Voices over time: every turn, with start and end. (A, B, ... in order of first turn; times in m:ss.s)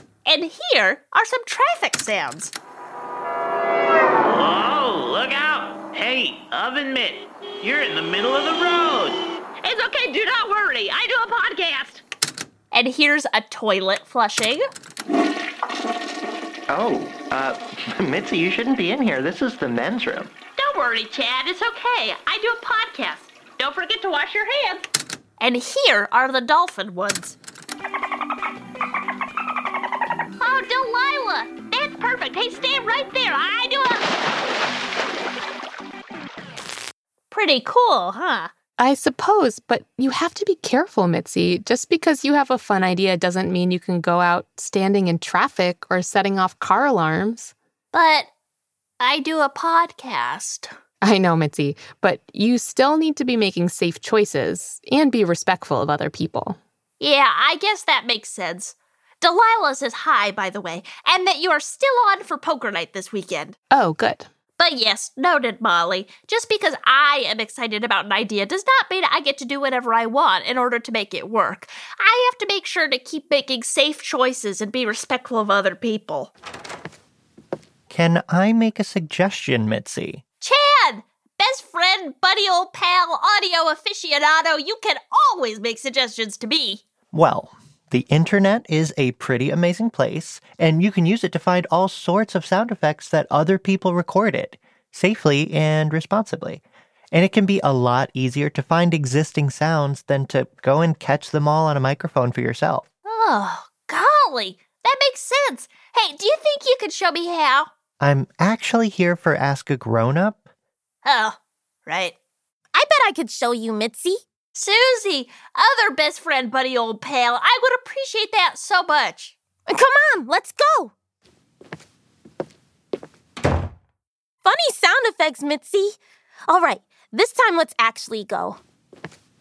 0:00.2-0:02.5 A
0:04.2-0:09.2 B
0:09.7-0:11.9 A
0:09.9-0:12.0 B
0:12.7-0:14.6 A
0:16.7-0:20.3 C
0:20.6-0:24.8 A
0:25.4-0:27.4 A
0:30.4-0:34.1 A
0:37.3-0:38.5 A
0:38.8-0:47.5 D
0:47.9-0:48.3 A
0:49.0-0:50.7 A
0:51.0-0:56.6 D
0:57.0-1:03.6 A
1:03.7-1:04.3 D
1:04.6-1:16.3 A
1:17.9-1:20.2 C
1:20.4-1:26.8 A
1:27.1-1:42.8 C
1:43.0-1:47.7 A
1:48.0-1:50.4 C
1:51.0-1:52.1 A
1:52.7-1:54.2 E
1:54.5-1:59.3 A
1:59.7-2:00.9 E
2:04.4-2:08.6 E